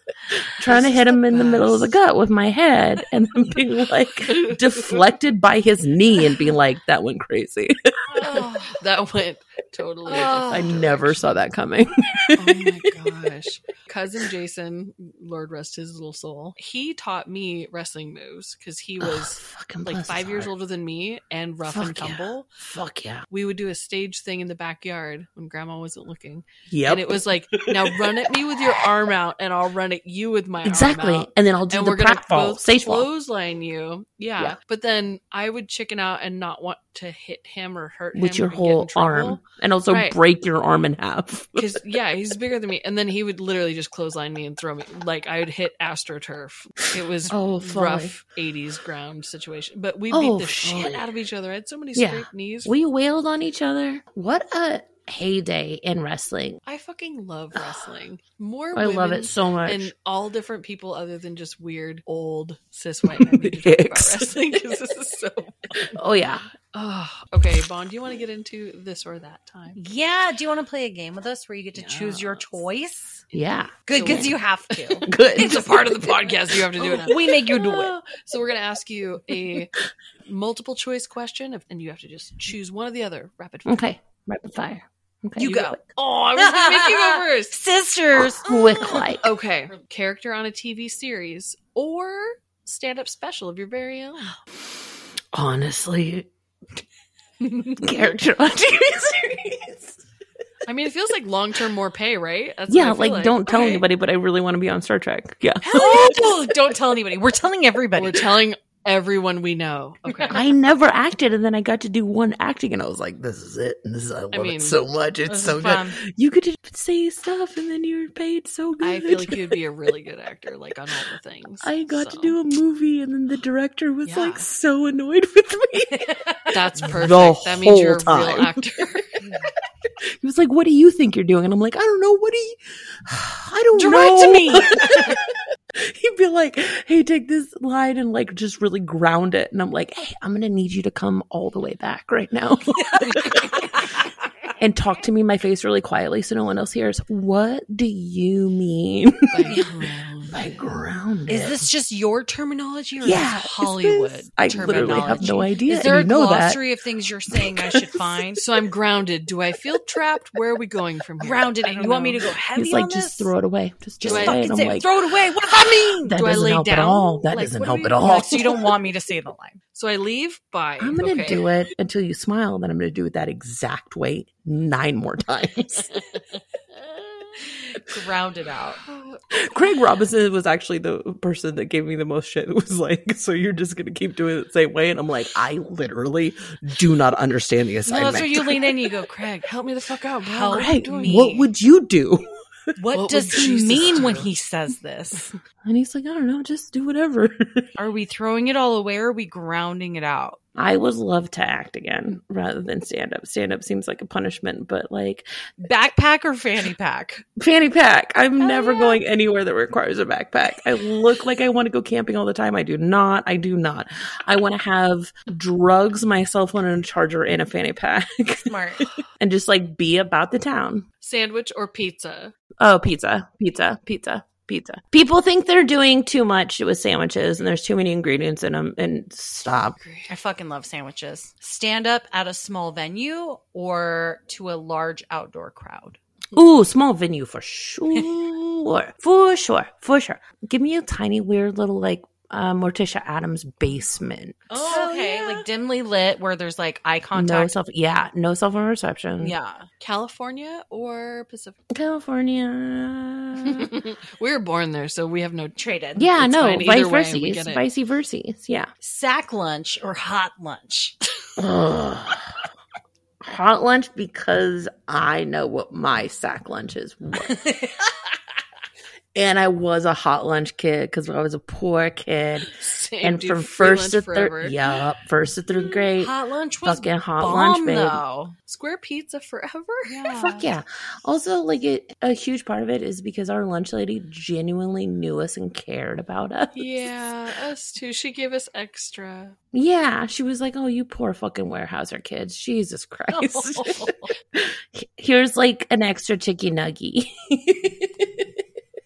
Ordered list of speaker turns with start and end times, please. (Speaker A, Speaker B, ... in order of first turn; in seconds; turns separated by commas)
Speaker A: 0.3-8.2, Speaker B: 0.6-1.9, Speaker B: 4.3-5.0, Speaker B: 8.1-11.3, Speaker C: 8.2-8.7, Speaker C: 10.1-10.7, Speaker A: 10.5-13.1, Speaker B: 12.3-22.5, Speaker A: 19.0-20.5, Speaker A: 21.6-23.2, Speaker B: 23.3-40.2, Speaker A: 26.7-28.8, Speaker A: 30.6-33.1, Speaker A: 38.1-41.8, Speaker B: 41.5-52.7, Speaker A: 47.3-48.1, Speaker A: 50.1-51.1, Speaker A: 51.9-56.6, Speaker B: 56.6-65.9, Speaker A: 57.5-57.9, Speaker A: 58.7-59.9, Speaker A: 63.0-64.6, Speaker A: 65.9-66.5, Speaker B: 66.7-69.8, Speaker C: 69.8-73.2, Speaker B: 71.8-72.6, Speaker A: 73.3-74.3, Speaker C: 73.9-75.1, Speaker B: 73.9-74.4, Speaker B: 75.0-79.7, Speaker A: 75.0-77.0, Speaker C: 76.8-77.9, Speaker B: 80.2-83.8, Speaker A: 83.7-85.8, Speaker C: 85.4-85.8, Speaker B: 85.9-87.6, Speaker C: 86.3-88.9, Speaker A: 88.2-89.2, Speaker B: 88.8-94.3, Speaker A: 95.3-96.3, Speaker B: 97.5-97.8, Speaker A: 97.8-100.0, Speaker B: 100.7-103.8, Speaker A: 102.7-106.5, Speaker C: 105.7-108.4, Speaker B: 105.7-106.1, Speaker B: 108.0-110.4, Speaker C: 110.1-110.3, Speaker A: 110.3-119.6, Speaker B: 114.3-114.8, Speaker C: 115.4-116.0, Speaker B: 118.8-122.3, Speaker A: 121.6-126.1, Speaker B: 124.0-124.5, Speaker C: 125.9-126.5, Speaker B: 126.5-129.2, Speaker A: 126.8-128.6, Speaker A: 130.2-135.2, Speaker C: 133.7-135.2, Speaker A: 135.7-143.7, Speaker A: 144.6-149.6, Speaker B: 149.3-150.4, Speaker C: 149.5-149.9, Speaker A: 150.3-151.7, Speaker C: 151.3-158.4, Speaker A: 153.0-156.6, Speaker B: 154.5-155.5, Speaker A: 157.3-158.0, Speaker B: 158.4-162.2, Speaker C: 161.2-163.3, Speaker A: 162.5-168.7, Speaker C: 164.0-166.2, Speaker B: 164.0-164.8, Speaker B: 166.1-168.6, Speaker C: 168.0-169.6, Speaker B: 169.7-171.5, Speaker A: 170.8-175.9, Speaker B: 177.3-177.8, Speaker C: 177.8-178.8, Speaker B: 178.8-179.8, Speaker A: 179.3-189.0, Speaker C: 187.9-189.4, Speaker B: 189.2-191.3, Speaker C: 190.2-191.5, Speaker A: 190.5-192.3, Speaker C: 192.8-195.3, Speaker B: 192.9-194.3, Speaker A: 195.6-197.7, Speaker C: 197.8-200.4, Speaker A: 200.6-205.3, Speaker C: 205.6-207.2, Speaker A: 207.4-218.6, Speaker C: 218.4-218.9, Speaker A: 219.2-220.8, Speaker B: 221.0-222.3, Speaker A: 222.6-229.8, Speaker B: 229.8-230.1, Speaker C: 230.1-236.0, Speaker A: 236.3-245.0, Speaker B: 244.5-245.4, Speaker C: 244.5-247.5, Speaker A: 247.1-249.3, Speaker C: 249.2-249.7, Speaker B: 249.8-251.6, Speaker A: 251.7-253.7, Speaker B: 253.4-255.6, Speaker C: 255.6-256.1, Speaker A: 255.9-258.7, Speaker B: 256.2-257.6, Speaker C: 258.8-260.9, Speaker A: 261.4-262.3, Speaker A: 263.2-267.4, Speaker C: 267.3-267.7, Speaker A: 269.1-272.5, Speaker B: 272.6-274.6, Speaker A: 273.0-276.1, Speaker C: 275.5-278.4, Speaker A: 276.6-278.0, Speaker B: 278.5-280.3, Speaker C: 279.9-280.5, Speaker A: 280.1-286.9, Speaker B: 286.5-289.4, Speaker A: 289.5-298.3, Speaker C: 293.1-294.1